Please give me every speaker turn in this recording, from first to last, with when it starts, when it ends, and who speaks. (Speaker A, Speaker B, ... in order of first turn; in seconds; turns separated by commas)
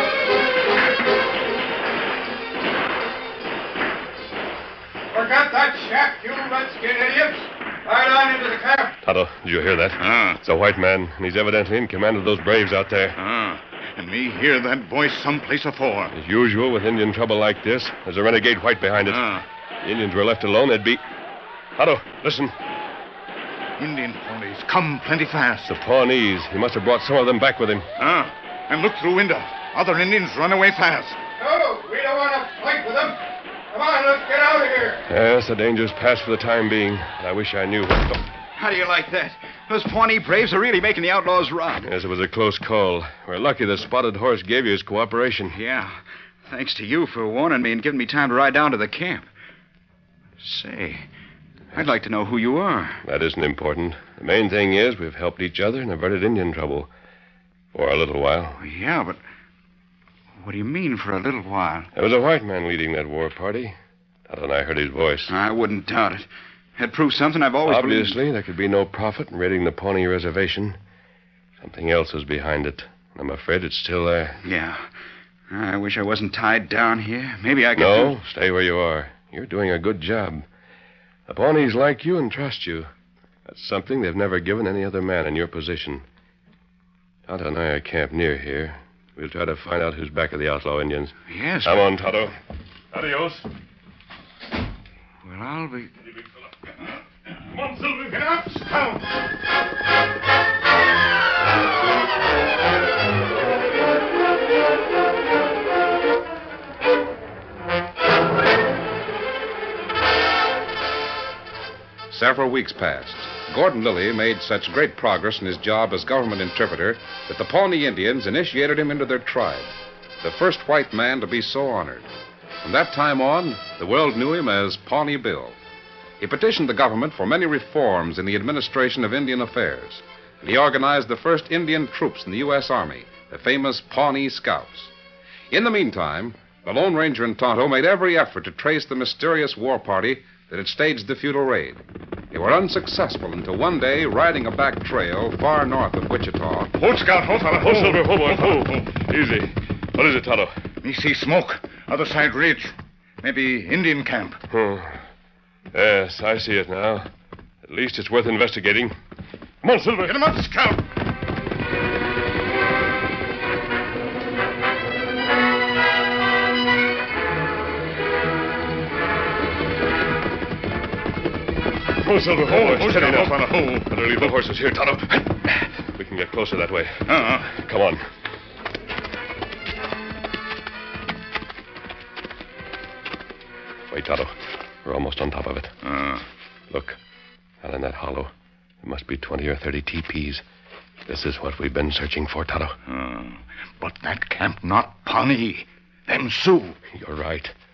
Speaker A: 5.1-9.0, Speaker B: 9.0-13.2, Speaker C: 10.0-10.4, Speaker C: 13.2-16.1, Speaker B: 16.1-19.2, Speaker C: 19.0-19.4, Speaker B: 19.8-21.0, Speaker B: 21.8-22.5, Speaker C: 23.8-25.8, Speaker B: 25.7-27.9, Speaker C: 28.0-31.2, Speaker A: 31.4-33.2, Speaker A: 33.7-35.0, Speaker B: 35.1-38.2, Speaker D: 38.5-41.9, Speaker B: 41.8-45.6, Speaker D: 45.5-49.3, Speaker D: 50.4-51.0, Speaker D: 51.7-53.0, Speaker B: 53.0-56.9, Speaker B: 57.7-58.6, Speaker D: 58.6-59.2, Speaker D: 60.4-61.9, Speaker B: 61.9-63.8, Speaker B: 64.3-65.3, Speaker D: 65.3-68.2, Speaker B: 67.6-70.8, Speaker B: 71.6-74.4, Speaker D: 74.4-74.8, Speaker D: 75.5-78.2, Speaker B: 77.8-80.5, Speaker B: 81.3-82.9, Speaker B: 83.5-86.0, Speaker B: 87.3-92.3, Speaker D: 91.3-92.0, Speaker B: 92.9-93.4, Speaker D: 95.2-95.9, Speaker B: 97.5-98.2, Speaker C: 98.1-99.0, Speaker E: 112.1-122.1, Speaker E: 122.6-125.5, Speaker E: 126.2-134.9, Speaker E: 135.5-141.8, Speaker E: 142.3-146.7, Speaker C: 146.7-148.9, Speaker B: 147.6-150.5, Speaker C: 150.8-154.4, Speaker B: 154.5-155.0, Speaker B: 155.7-157.1, Speaker B: 157.6-158.9, Speaker B: 159.6-160.2, Speaker C: 160.0-160.8, Speaker B: 172.0-178.0, Speaker C: 172.4-174.4, Speaker C: 177.1-177.5, Speaker B: 183.9-185.7, Speaker C: 185.8-186.2, Speaker B: 186.7-187.0, Speaker B: 187.6-188.3, Speaker B: 188.8-190.4, Speaker B: 191.1-192.8, Speaker C: 192.8-196.8, Speaker B: 196.9-197.5